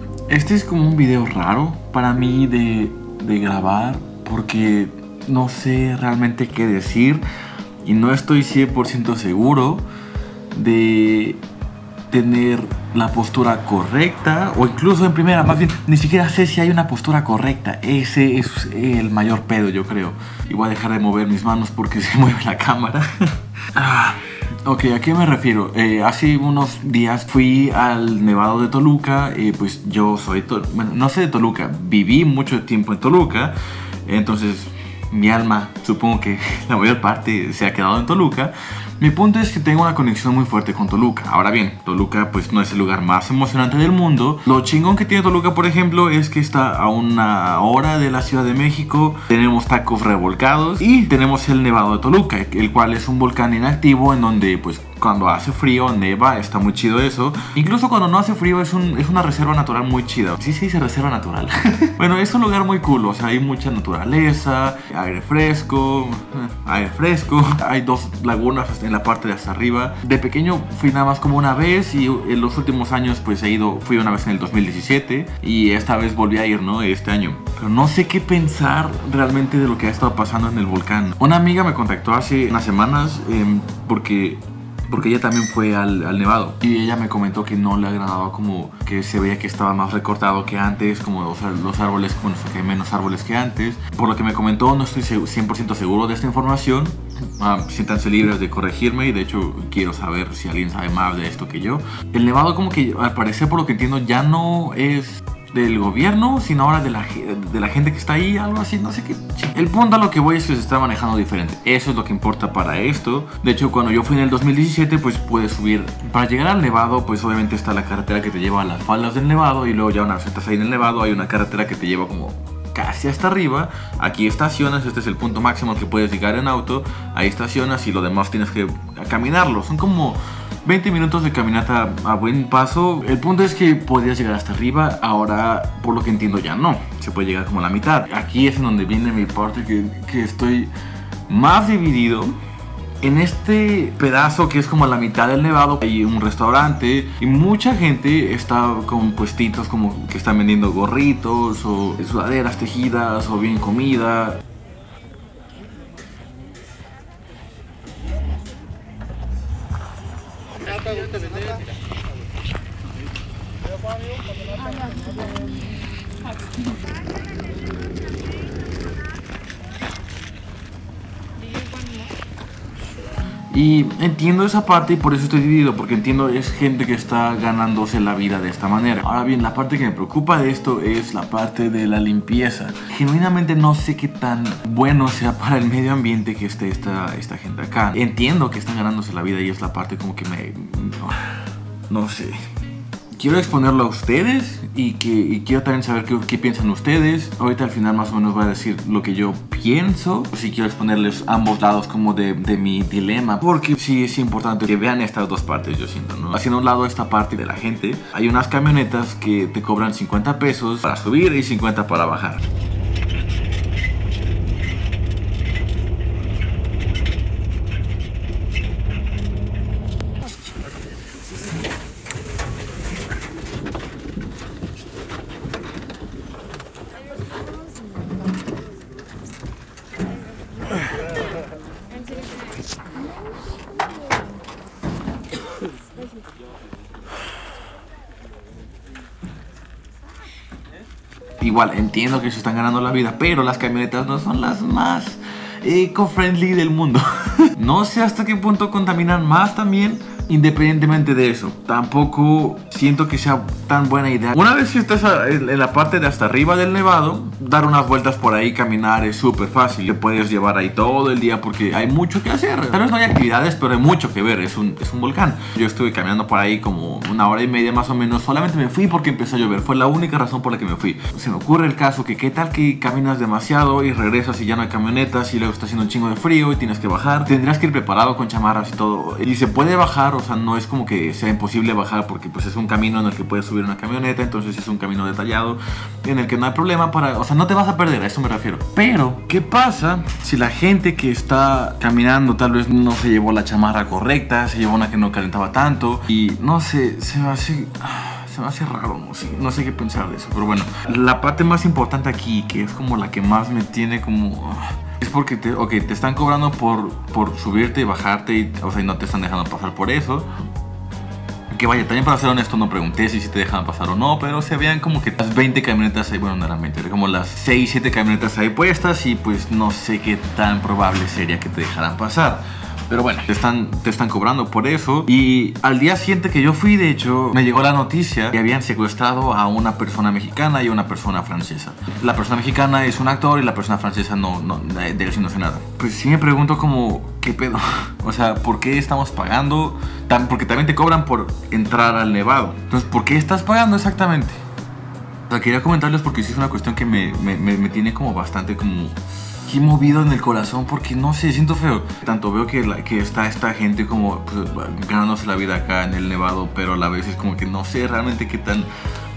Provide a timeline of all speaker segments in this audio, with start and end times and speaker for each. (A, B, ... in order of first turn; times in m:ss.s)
0:00.3-0:07.2 A
0:07.8-0:09.8 A
0:10.5-0:11.4 A
0:12.1-2:20.7 A
2:21.3-2:22.4 A
2:23.0-2:34.4 A
2:53.5-3:12.4 A
3:13.1-3:32.4 A
4:01.4-5:10.3 A
5:11.5-5:44.4 A
5:45.3-5:58.7 A